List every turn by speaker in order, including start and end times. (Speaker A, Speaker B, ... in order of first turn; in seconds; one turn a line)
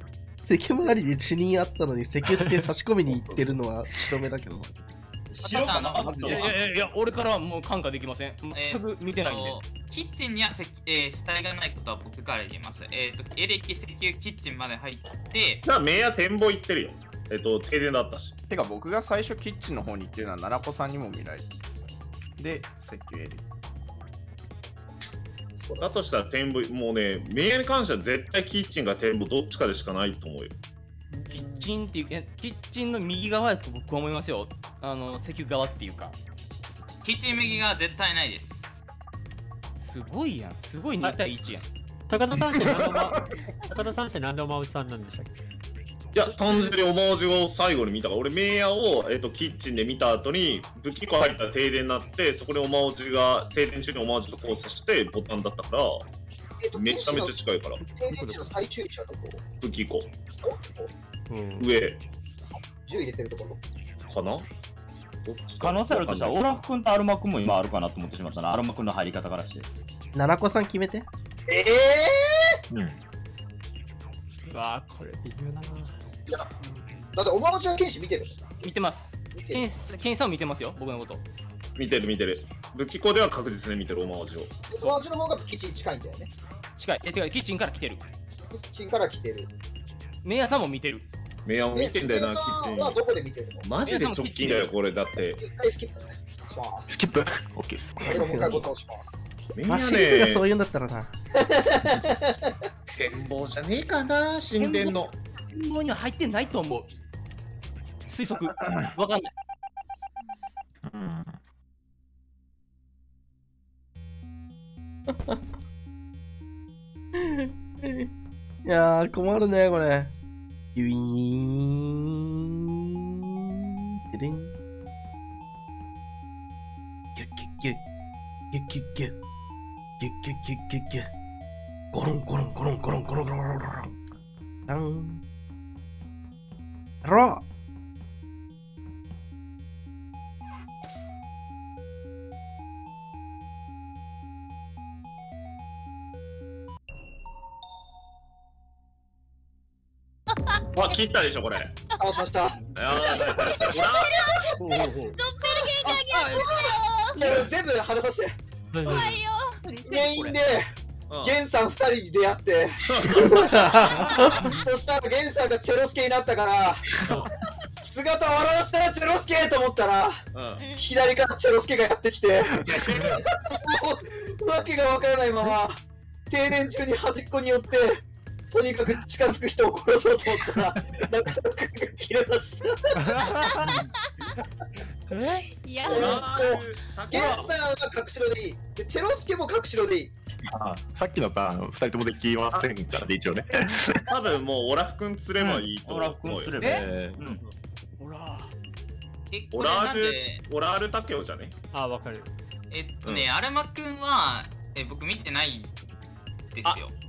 Speaker A: 0.5-4.7
Speaker B: 2.3-2.7
Speaker C: 3.1-3.6
Speaker D: 5.3-6.5
Speaker E: 5.4-6.4
Speaker C: 6.0-6.5
Speaker F: 6.2-9.6
Speaker E: 8.6-15.6
Speaker G: 15.7-18.4
Speaker C: 18.5-21.6
Speaker C: 22.4-23.4
Speaker H: 25.6-25.9
Speaker G: 25.8-30.5
Speaker H: 31.1-31.7
Speaker F: 31.3-36.2
Speaker E: 37.0-38.7
Speaker F: 39.8-41.7
Speaker B: 42.1-45.3
Speaker G: 46.1-56.0
Speaker H: 56.6-59.4
Speaker G: 56.7-58.0
Speaker B: 58.1-58.4
Speaker G: 59.6-60.1
Speaker H: 60.4-60.9
Speaker B: 61.3-61.7
Speaker G: 61.6-62.0
Speaker H: 62.9-63.6
Speaker G: 64.1-64.5
Speaker G: 65.2-66.6
Speaker D: 65.6-69.7
Speaker A: 70.2-71.1
Speaker H: 71.5-72.6
Speaker B: 74.5-76.0
Speaker B: 76.6-77.1
Speaker H: 77.2-78.7
Speaker F: 78.6-81.2
Speaker H: 79.3-79.7
Speaker G: 81.8-84.5
Speaker H: 84.7-86.3
Speaker F: 86.8-88.1
Speaker H: 88.5-89.5
Speaker F: 90.2-91.1
Speaker G: 91.5-93.0
Speaker H: 91.7-93.7
Speaker G: 93.6-95.4
Speaker F: 93.8-94.7
Speaker H: 95.2-97.0
Speaker I: 96.9-98.6
Speaker H: 98.0-99.2
Speaker A: 98.1-98.7
Speaker G: 99.5-100.5
Speaker A: 99.7-101.1
Speaker H: 101.4-102.4
Speaker G: 102.9-105.1
Speaker F: 104.6-105.0
Speaker F: 105.5-106.9
Speaker F: 108.1-109.3
Speaker I: 110.9-111.3
Speaker A: 117.4-118.1
Speaker A: 118.7-120.1
Speaker A: 120.8-122.2
Speaker A: 124.1-124.6
Speaker A: 127.2-127.8
Speaker A: 128.5-129.2
Speaker A: 130.0-131.1
Speaker A: 131.9-134.0
Speaker A: 134.7-135.2
Speaker A: 137.0-137.4
Speaker G: 150.8-151.7
Speaker H: 152.0-152.6
Speaker G: 152.8-154.2
Speaker B: 152.9-153.3
Speaker B: 153.9-157.1
Speaker F: 155.8-156.4
Speaker H: 157.2-158.3
Speaker B: 158.7-159.6
Speaker F: 159.7-160.4
Speaker H: 159.9-160.7
Speaker G: 161.1-161.4
Speaker H: 161.2-167.0
Speaker G: 162.8-163.8
Speaker A: 163.2-164.4
Speaker H: 167.8-170.2
Speaker G: 170.3-170.7
Speaker B: 170.6-170.8
Speaker H: 170.8-175.8
Speaker G: 172.6-173.2
Speaker H: 176.3-183.0
Speaker B: 185.1-186.1
Speaker H: 185.8-190.1
Speaker G: 185.9-187.5
Speaker I: 190.5-194.1
Speaker G: 194.1-196.6
Speaker D: 195.4-197.4
Speaker F: 196.6-196.9
Speaker I: 196.8-197.2
Speaker F: 198.0-198.5
Speaker E: 199.3-200.4
Speaker G: 199.5-201.6
Speaker B: 201.7-202.3
Speaker E: 202.7-205.7
Speaker E: 206.5-206.9